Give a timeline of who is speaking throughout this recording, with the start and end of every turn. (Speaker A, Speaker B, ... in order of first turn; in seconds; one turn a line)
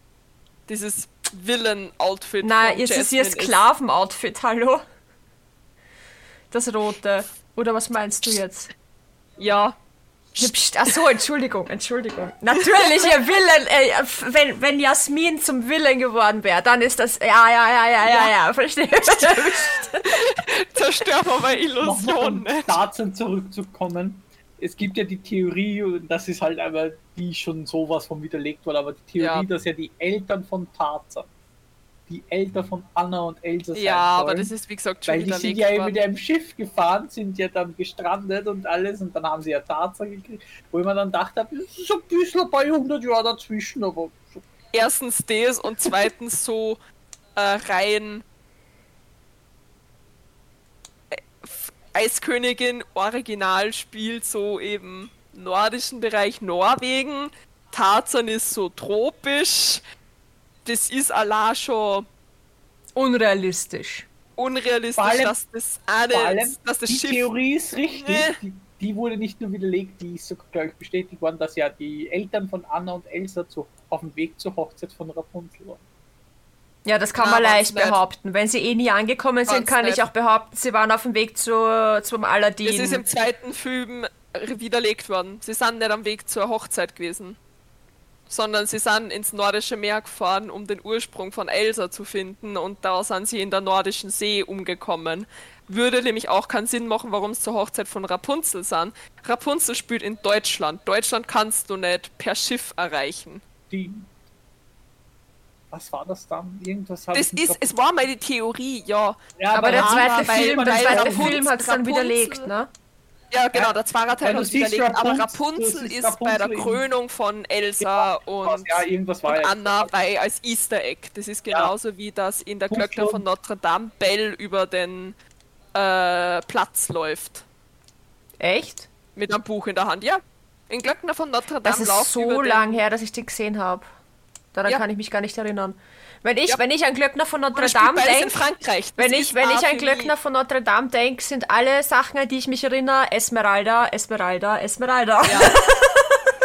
Speaker A: 0.7-3.6
Speaker B: 2.4-4.8
Speaker B: 6.5-8.7
Speaker A: 9.4-9.8
Speaker A: 10.3-10.9
Speaker B: 10.4-20.1
Speaker A: 12.7-13.2
Speaker A: 19.2-22.8
Speaker C: 21.8-31.3
Speaker A: 29.2-29.5
Speaker C: 32.1-34.5
Speaker A: 33.8-36.0
Speaker C: 35.0-44.5
Speaker A: 44.7-46.8
Speaker A: 47.4-48.2
Speaker A: 51.1-59.8
Speaker A: 60.6-62.1
Speaker B: 63.0-64.1
Speaker A: 64.4-67.3
Speaker C: 65.0-65.4
Speaker C: 66.1-75.8
Speaker A: 68.0-68.4
Speaker B: 76.8-83.0
Speaker A: 77.2-78.0
Speaker A: 79.5-80.0
Speaker A: 82.7-87.4
Speaker A: 88.3-103.4
Speaker C: 103.7-104.1
Speaker C: 105.7-107.7
Speaker A: 107.1-112.5
Speaker C: 109.4-111.4
Speaker B: 109.5-112.7
Speaker A: 113.3-125.2
Speaker C: 113.5-116.8
Speaker C: 117.8-119.9
Speaker C: 122.7-123.2
Speaker A: 125.7-127.5
Speaker B: 128.4-128.9
Speaker A: 129.2-132.8
Speaker B: 131.6-133.9
Speaker B: 134.5-138.4
Speaker A: 137.5-140.1
Speaker B: 139.0-146.2
Speaker A: 145.2-145.6